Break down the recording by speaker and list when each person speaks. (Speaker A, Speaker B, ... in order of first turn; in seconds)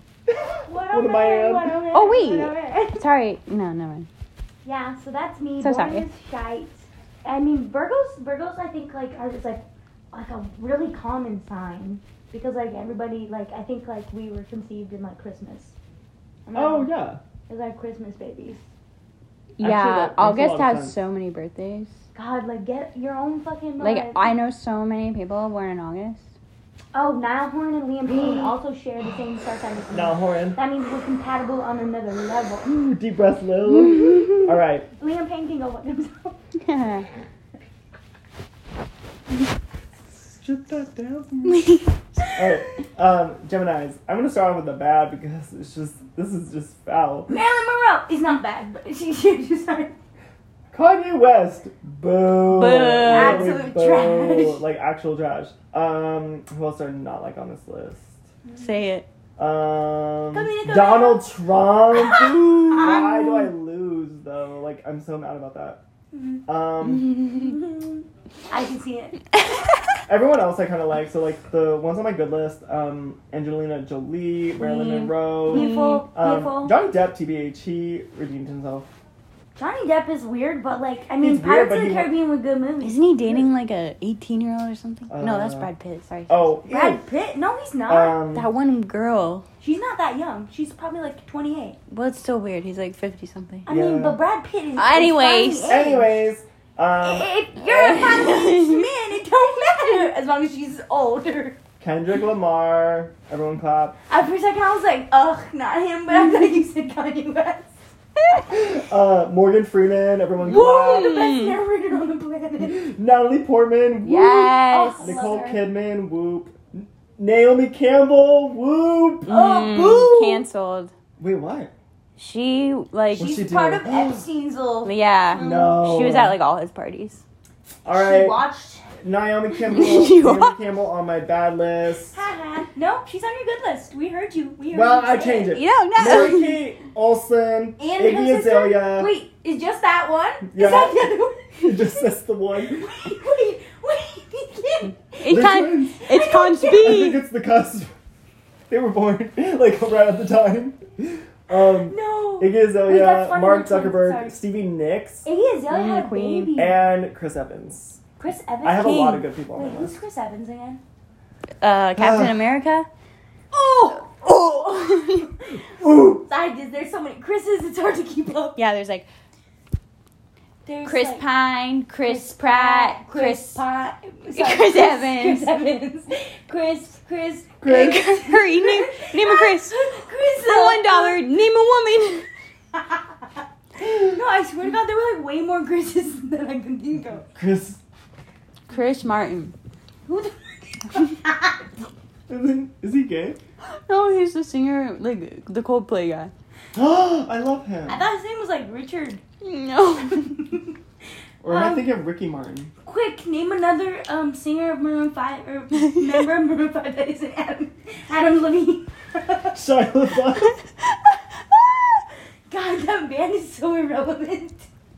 Speaker A: 0.3-1.8, 16.6-17.2, 19.6-21.0, 29.9-30.6, 32.6-34.9, 40.1-41.7, 42.4-47.3, 50.7-58.2, 59.4-65.8, 66.5-67.2, 70.1-78.9, 81.2-82.1, 85.1-85.7, 86.3-87.0, 87.9-88.5, 93.7-94.2, 95.7-97.3, 101.8-104.0, 108.5-111.2, 112.6-119.3, 121.2-121.7, 123.1-124.2, 125.3-126.4, 127.8-128.4, 129.0-132.2, 134.7-139.1, 140.4-143.0, 145.3-146.0, 146.7-147.9, 148.7-155.3, 156.6-158.0, 158.6-159.9, 162.0-162.3, 165.6-166.2, 177.6-178.0, 187.3-187.8, 192.3-193.4, 196.8-198.1, 201.4-202.7, 209.5-210.6
Speaker B: 0.7-3.0, 4.7-15.8, 16.5-16.9, 17.5-18.6, 22.1-24.3, 26.9-32.7, 35.0-36.4, 47.3-50.0, 53.1-54.6, 60.3-61.3, 61.9-63.5, 66.1-66.4, 67.3-69.2, 75.5-76.8, 79.6-83.5, 86.7-88.2, 89.6-91.8, 93.7-96.1, 97.0-101.6, 104.1-107.7, 110.4-112.9, 114.7-115.6, 119.3-120.5, 123.2-125.8, 127.9-128.9, 132.1-135.6, 137.8-141.8, 142.7-145.4, 146.0-146.9, 151.6-154.4, 155.2-156.8, 158.2-160.8, 163.5-164.1, 166.2-168.6, 170.7-171.2, 172.0-181.2, 182.7-183.2, 183.8-187.3, 190.1-191.6, 197.9-199.2, 200.3-200.7, 201.5-201.9, 202.8-209.6, 212.5-214.7
Speaker C: 1.9-4.1, 5.6-6.1, 19.6-21.9, 23.8-26.3, 33.7-34.5, 36.6-37.1, 41.5-42.0, 52.5-53.6, 58.6-59.1, 62.4-62.7, 69.4-70.0, 74.6-76.0, 82.8-86.5, 88.3-89.5, 91.9-93.7, 94.8-95.8, 97.6-98.9, 111.1-111.6, 114.0-115.3, 119.3-120.9, 122.2-123.3, 124.8-127.2, 129.7-130.6, 135.5-136.6, 145.2-147.2, 155.7-156.5, 161.6-162.9, 164.0-165.3, 168.6-169.1, 170.8-173.6, 174.3-175.5, 177.7-179.8, 180.4-182.3, 188.7-189.5, 193.6-196.3, 199.4-200.4